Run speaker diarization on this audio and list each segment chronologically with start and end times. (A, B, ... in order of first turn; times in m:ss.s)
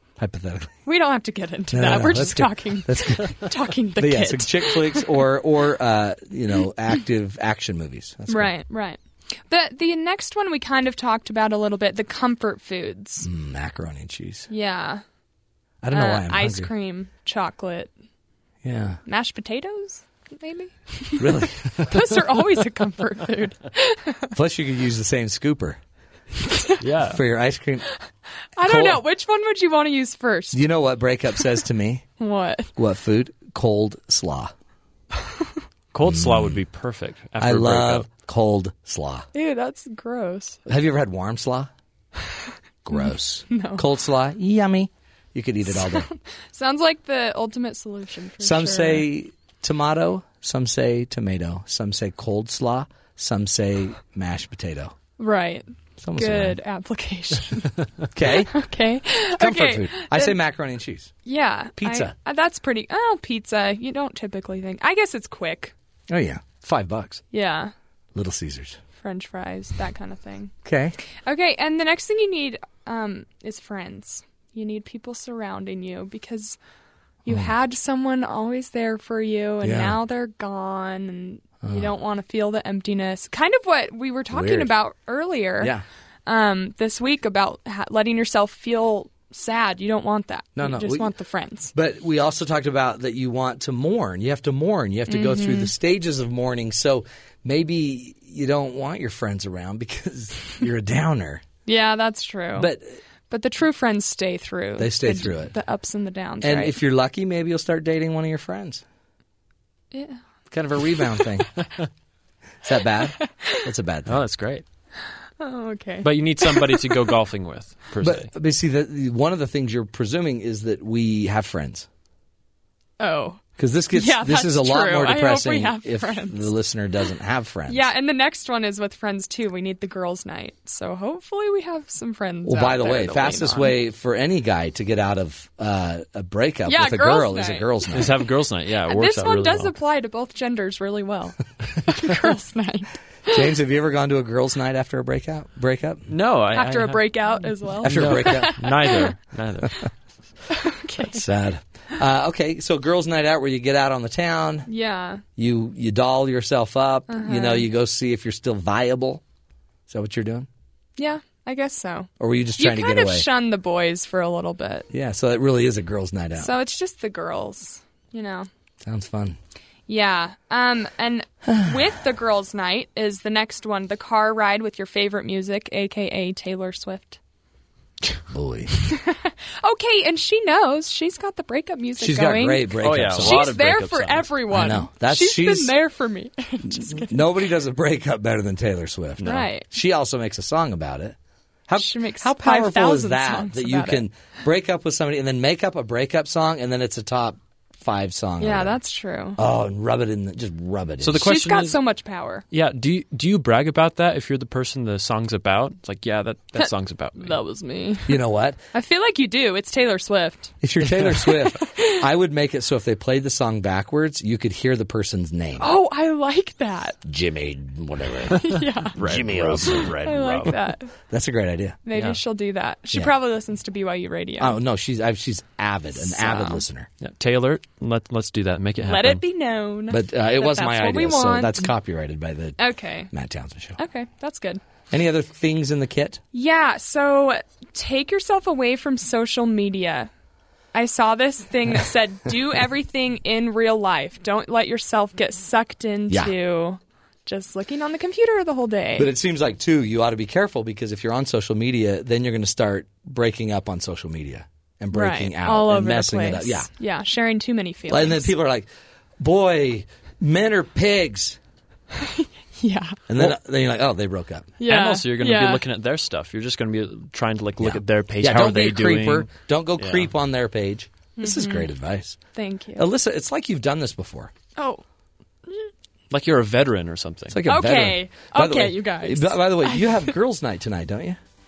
0:00.2-0:00.8 A
0:00.8-0:05.2 B
0:01.7-0:08.5 A
0:08.3-0:13.3 B
0:13.2-0:14.5 A
0:14.5-0:15.0 B
0:15.8-0:16.7 A
0:15.9-0:17.9 B
0:18.6-0:19.0 A
0:19.0-0:24.4 B
0:21.2-0:21.8 A
0:24.3-0:25.8 A
0:26.5-0:26.9 B
0:26.8-0:27.2 C
0:27.1-0:27.9 A
0:28.6-0:30.6 B
0:28.6-0:29.0 A
0:30.5-0:32.1 A
0:32.2-0:32.7 B
0:32.8-0:34.5 A
0:35.9-0:38.1 C
0:36.1-0:36.6 A
0:37.4-0:39.3 A
0:39.3-0:40.6 B
0:40.7-0:41.7 A
0:42.8-0:46.1 A
0:43.0-0:43.9 B
0:45.7-0:49.1 B
0:48.4-0:55.0 A
0:55.2-0:57.8 B
0:56.0-0:56.6 A
0:58.1-0:58.6 A
0:58.4-1:00.4 B
0:59.4-1:01.2 A
1:01.2-1:05.7 B
1:01.8-1:02.2 A
1:06.1-1:07.2 A
1:07.3-1:07.7 B
1:08.2-1:08.8 A
1:08.9-1:10.5 B
1:10.6-1:11.0 A
1:11.2-1:16.6 B
1:17.3-1:31.7 B
1:19.6-1:20.0 A
1:21.6-1:21.9 A
1:24.3-1:24.7 A
1:30.6-1:31.1 A
1:31.7-1:41.5 A
1:35.1-1:35.7 B
1:41.6-1:42.7 B
1:42.6-1:43.0 A
1:43.3-1:46.8 B
1:44.8-1:45.6 A
1:46.4-1:48.8 A
1:49.9-1:50.2 B
1:50.5-1:51.5 A
1:52.6-1:54.2 A
1:53.2-1:53.7 B
1:54.1-1:54.6 C
1:55.4-1:57.1 B
1:56.0-1:58.3 C
1:58.0-2:01.9 A
2:03.0-2:06.5 B
2:03.6-2:07.9 A
2:07.7-2:13.7 B
2:12.5-2:18.1 A
2:16.7-2:17.9 B
2:17.9-2:19.7 C
2:18.8-2:23.5 B
2:23.3-2:26.1 A
2:26.1-2:27.2 C
2:26.5-2:29.2 B
2:27.8-2:29.9 C
2:27.8-2:28.9 A
2:30.5-2:31.2 B
2:31.1-2:34.7 A
2:34.7-2:35.2 B
2:35.4-2:39.2 A
2:37.1-2:37.7 B
2:39.9-2:40.5 A
2:41.0-2:44.9 B
2:42.2-2:43.3 A
2:44.9-2:46.5 A
2:46.4-2:48.5 B
2:48.8-2:49.4 A
2:49.9-2:57.2 B
2:51.5-2:51.8 A
2:58.3-2:58.7 A
2:58.8-3:07.3 B
3:02.0-3:03.6 A
3:02.8-3:04.4 C
3:04.5-3:05.7 A
3:06.7-3:11.2 A
3:09.2-3:09.5 C
3:09.2-3:09.7 B
3:11.7-3:18.8 A
3:11.8-3:14.1 B
3:18.4-3:19.4 B
3:19.4-3:21.3 A
3:21.0-3:21.8 C
3:21.2-3:22.4 B
3:22.5-3:27.4 C
3:26.6-3:28.2 B
3:28.1-3:28.6 A
3:28.7-3:30.6 B
3:30.6-3:35.7 A
3:31.2-3:32.1 B
3:35.6-3:37.0 B
3:37.0-3:40.6 A
3:38.3-3:39.0 B
3:39.0-3:40.2 C
3:39.6-3:40.9 B
3:41.1-3:41.8 A
3:41.8-3:44.6 B
3:41.9-3:42.2 C
3:44.4-3:46.9 A
3:45.9-3:46.6 B
3:47.0-3:49.2 C
3:48.8-3:51.7 B
3:49.9-3:52.6 A
3:52.6-3:53.1 B
3:53.1-3:53.8 A
3:53.8-3:54.6 B
3:54.9-3:56.2 A
3:56.3-4:00.1 B
4:00.7-4:09.1 B
4:09.0-4:16.7 A
4:14.9-4:18.3 B
4:17.9-4:18.7 A
4:19.2-4:21.4 A
4:22.0-4:23.2 B
4:23.1-4:24.6 A
4:24.6-4:25.7 B
4:24.6-4:30.1 C
4:27.6-4:32.2 A
4:31.2-4:31.7 B
4:32.3-4:32.9 B
4:32.8-4:34.3 A
4:34.6-4:34.8 B
4:36.1-4:37.4 C
4:37.3-4:41.2 A
4:37.5-4:40.2 B